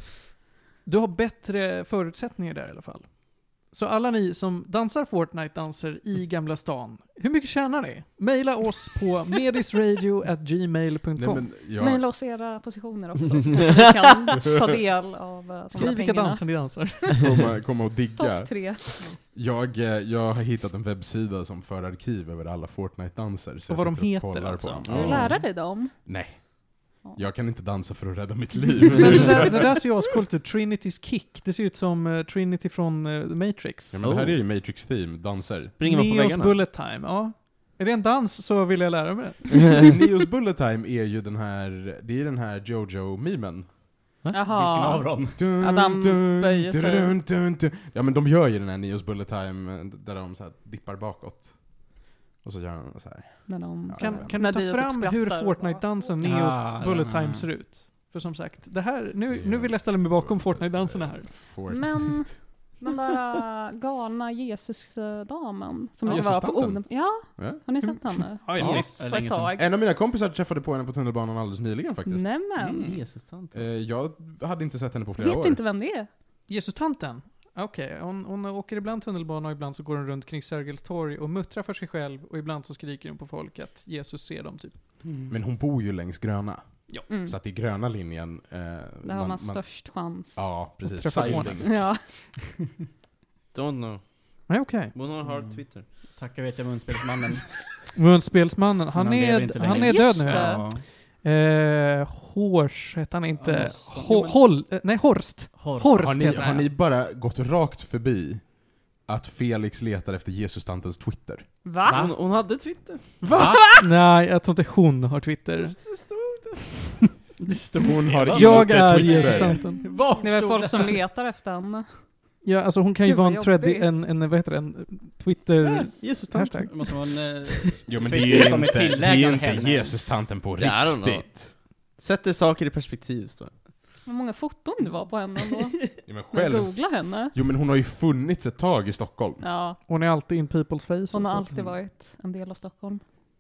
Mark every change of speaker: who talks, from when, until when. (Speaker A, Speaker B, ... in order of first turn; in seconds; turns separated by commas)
Speaker A: 0.9-11.5, Speaker B: 11.2-12.1, Speaker C: 11.8-17.2, Speaker A: 15.7-17.2, Speaker B: 17.2-29.5, Speaker C: 18.2-19.2, Speaker A: 23.7-25.2, Speaker C: 24.9-26.2, Speaker A: 29.0-34.0, Speaker B: 33.9-35.7, Speaker D: 34.0-34.8, Speaker D: 35.7-36.6, Speaker A: 35.8-39.9, Speaker B: 39.7-43.8, Speaker C: 44.3-47.1, Speaker E: 44.5-45.6, Speaker B: 45.4-54.4, Speaker C: 53.5-56.2, Speaker A: 54.0-61.4, Speaker E: 56.2-57.5, Speaker B: 59.3-62.4, Speaker C: 61.7-69.7, Speaker B: 66.0-67.6, Speaker A: 67.8-68.9, Speaker B: 68.5-72.4, Speaker E: 68.6-69.5, Speaker C: 72.0-72.9, Speaker E: 72.6-73.0, Speaker D: 72.7-73.6, Speaker B: 73.5-75.6, Speaker C: 75.2-76.1, Speaker A: 76.5-84.8, Speaker E: 85.0-85.3, Speaker B: 85.3-91.8, Speaker C: 87.1-87.4, Speaker C: 89.0-90.7, Speaker A: 90.8-91.6, Speaker E: 91.2-91.5, Speaker C: 91.4-92.0, Speaker D: 93.5-95.9, Speaker A: 94.5-94.9, Speaker E: 95.2-97.6, Speaker A: 98.0-106.7, Speaker E: 99.0-100.8, Speaker C: 99.6-100.7, Speaker E: 103.4-104.5, Speaker E: 105.5-106.5, Speaker B: 106.0-111.5, Speaker C: 111.6-112.1, Speaker D: 111.8-113.3, Speaker B: 113.2-113.6, Speaker E: 113.3-113.7, Speaker A: 113.8-115.8, Speaker D: 115.6-117.0, Speaker E: 117.4-121.0, Speaker B: 117.8-119.6, Speaker A: 118.3-119.8, Speaker C: 119.4-122.0, Speaker A: 122.4-126.7, Speaker C: 123.0-123.9, Speaker D: 125.6-127.0, Speaker E: 126.7-130.0, Speaker B: 127.9-131.5, Speaker D: 130.6-133.6, Speaker C: 134.1-137.4, Speaker B: 136.1-139.4, Speaker C: 139.4-139.8, Speaker A: 139.9-141.6, Speaker C: 141.1-143.0